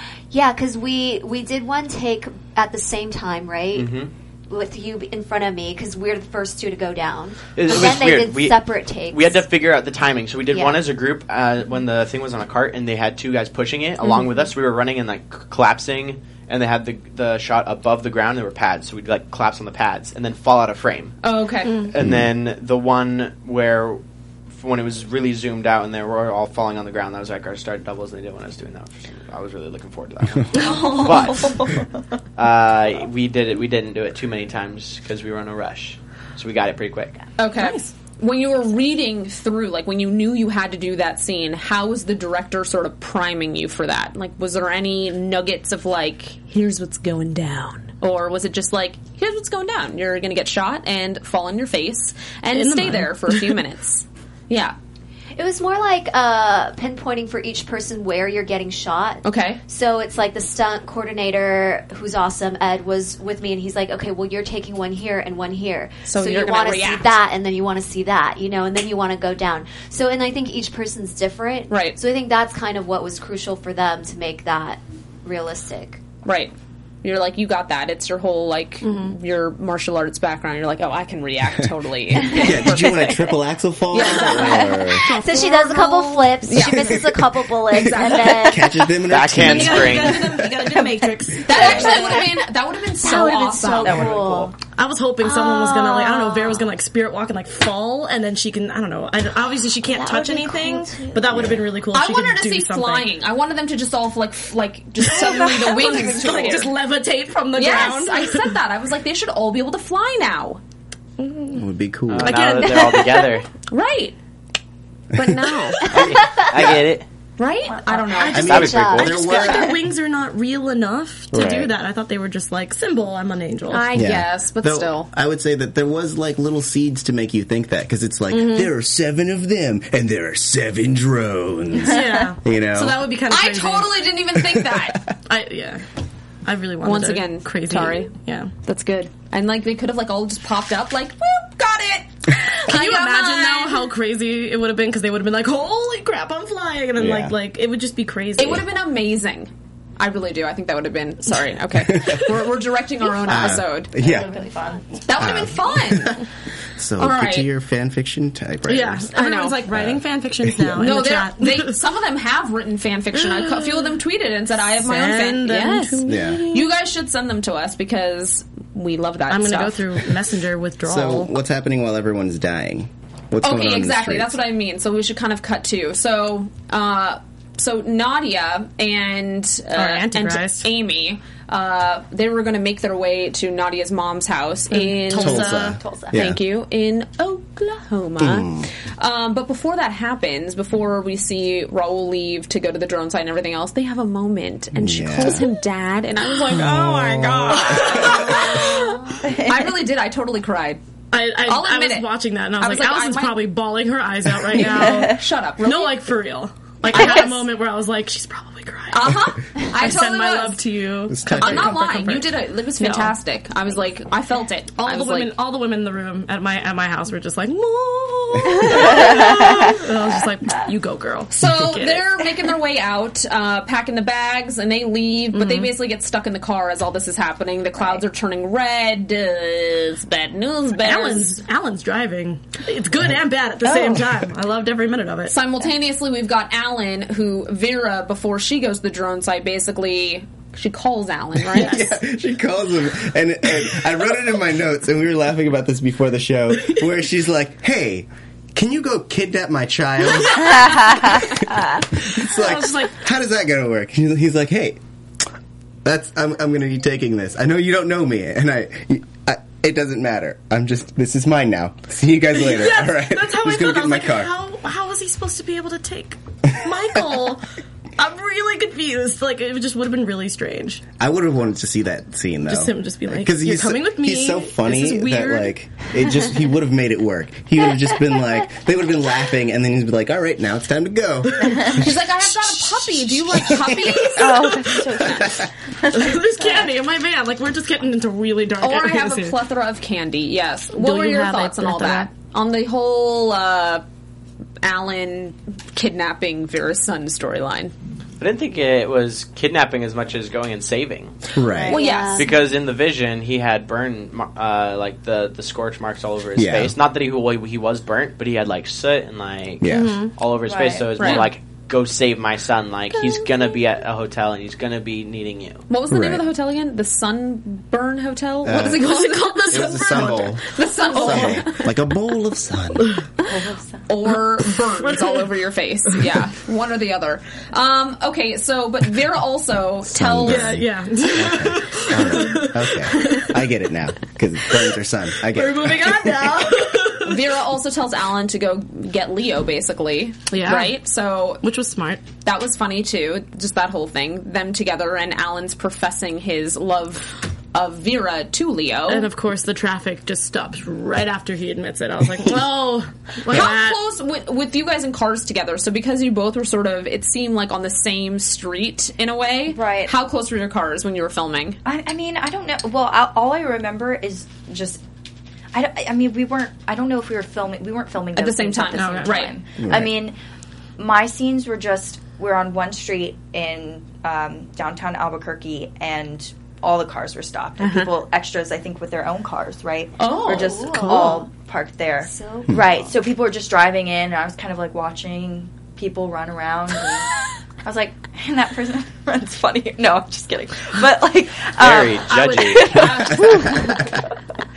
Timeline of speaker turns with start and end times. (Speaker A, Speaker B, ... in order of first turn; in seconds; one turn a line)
Speaker A: 0.3-4.0
Speaker B: 3.7-4.1
Speaker A: 4.5-9.4
Speaker B: 7.6-21.2
Speaker A: 10.5-10.8
Speaker C: 21.2-21.9
Speaker D: 21.7-21.9
Speaker B: 21.7-24.0
Speaker E: 22.0-22.3
Speaker B: 24.5-31.7
Speaker D: 30.6-31.4
Speaker F: 30.6-31.9
Speaker B: 32.4-37.2
Speaker C: 37.4-54.8
Speaker D: 37.6-37.9
Speaker D: 52.5-53.6
Speaker A: 55.4-76.0
Speaker C: 59.2-59.6
Speaker C: 66.1-67.2
Speaker C: 71.7-72.0
Speaker C: 76.2-83.4
Speaker D: 78.8-79.2
Speaker E: 82.1-85.1
Speaker C: 83.9-84.7
Speaker D: 84.0-87.0
Speaker A: 84.4-88.9
Speaker C: 86.5-87.1
Speaker C: 87.7-88.5
Speaker E: 88.3-90.5
Speaker B: 89.1-90.4
Speaker D: 89.3-92.3
Speaker C: 91.4-94.0
Speaker E: 91.5-91.9
Speaker A: 91.7-92.3
Speaker A: 93.0-94.6
Speaker D: 93.1-103.1
Speaker F: 93.8-94.4
Speaker A: 95.2-96.7
Speaker A: 99.8-101.3
Speaker E: 101.3-101.6
Speaker C: 101.9-106.7
Speaker D: 105.0-108.6
Speaker C: 107.5-110.6
Speaker D: 111.2-111.7
Speaker E: 111.5-112.5
Speaker B: 112.1-113.5
Speaker D: 112.2-113.3
Speaker C: 113.7-114.2
Speaker E: 115.1-115.4
Speaker C: 115.2-115.9
Speaker D: 115.8-116.0
Speaker B: 115.9-117.1
Speaker E: 115.9-116.8
Speaker A: 116.2-116.5
Speaker C: 117.4-118.6
Speaker F: 117.7-118.1
Speaker D: 118.0-124.0
Speaker E: 118.3-119.8
Speaker B: 118.3-119.3
Speaker A: 118.4-119.7
Speaker E: 121.3-121.7
Speaker C: 123.7-125.1
Speaker E: 123.9-133.1
Speaker D: 128.3-128.7
Speaker D: 131.8-134.1
Speaker C: 132.8-135.1
Speaker E: 134.3-135.0
Speaker D: 135.3-135.8
Speaker D: 136.4-138.5
Speaker C: 136.8-143.9
Speaker D: 142.6-148.7
Speaker E: 147.0-147.4
Speaker C: 148.4-153.9
Speaker E: 151.8-152.3
Speaker E: 153.2-154.3
Speaker A: 154.0-154.8
Speaker F: 154.0-154.7
Speaker C: 155.0-156.2
Speaker E: 155.2-159.1
Speaker C: 157.0-157.5
Speaker D: 158.7-161.8
Speaker C: 159.1-159.6
Speaker E: 159.7-160.8
Speaker C: 160.8-169.8
Speaker D: 163.1-164.0
Speaker D: 164.8-166.7
Speaker E: 166.1-166.5
Speaker D: 169.3-171.3
Speaker E: 170.9-174.4
Speaker C: 173.4-200.8
Speaker D: 179.7-180.7
Speaker D: 184.7-185.8
Speaker E: 185.2-186.4
Speaker F: 185.8-186.2
Speaker E: 188.2-188.7
Speaker E: 194.7-195.4
Speaker D: 196.5-198.8
Speaker E: 196.5-198.2
Speaker A: 198.7-199.2
Speaker F: 199.2-199.6
Speaker D: 201.1-213.2
Speaker C: 201.4-203.4
Speaker C: 204.6-206.0
Speaker F: 204.8-205.1
Speaker C: 206.9-207.4
Speaker C: 208.9-210.6
Speaker E: 211.1-211.8
Speaker C: 211.3-215.3
Speaker D: 214.8-222.2
Speaker C: 221.3-231.4
Speaker D: 225.3-225.7
Speaker D: 230.8-235.3
Speaker C: 235.3-241.9
Speaker E: 241.5-254.8
Speaker D: 241.6-241.9
Speaker D: 252.1-253.0
Speaker E: 255.8-264.3
Speaker D: 262.3-267.5
Speaker D: 268.0-270.8
Speaker E: 271.0-284.1
Speaker D: 272.5-275.5
Speaker C: 281.7-285.3
Speaker D: 283.4-285.0
Speaker F: 284.1-286.6
Speaker E: 285.0-285.5
Speaker D: 285.9-289.4
Speaker C: 288.6-293.8
Speaker D: 290.7-292.1
Speaker C: 294.6-297.7
Speaker B: 298.2-301.2
Speaker E: 301.3-301.8
Speaker A: 301.5-302.4
Speaker C: 301.7-302.3
Speaker B: 302.1-315.6
Speaker E: 306.4-306.8
Speaker E: 309.6-310.0
Speaker D: 309.7-310.1
Speaker F: 310.4-311.2
Speaker C: 311.0-311.3
Speaker C: 315.7-321.7
Speaker E: 315.9-316.2
Speaker E: 318.4-318.9
Speaker D: 318.5-321.5
Speaker E: 319.5-322.9
Speaker F: 323.2-323.9
Speaker C: 323.9-330.6
Speaker D: 324.8-325.3
Speaker E: 329.9-336.7
Speaker D: 330.2-333.5
Speaker D: 334.5-337.3
Speaker C: 337.0-341.4
Speaker D: 340.3-340.8
Speaker D: 341.4-342.1
Speaker C: 342.2-349.1
Speaker D: 348.9-353.8
Speaker C: 353.3-361.6
Speaker F: 359.5-359.9
Speaker F: 361.6-364.8
Speaker F: 365.5-370.2
Speaker C: 368.2-369.3
Speaker D: 368.7-369.3
Speaker E: 369.6-370.0
Speaker F: 370.8-387.1
Speaker C: 380.0-381.1
Speaker A: 380.3-381.2
Speaker D: 380.9-381.2
Speaker A: 382.0-382.9
Speaker F: 387.6-394.1
Speaker B: 391.6-393.2
Speaker C: 392.6-393.7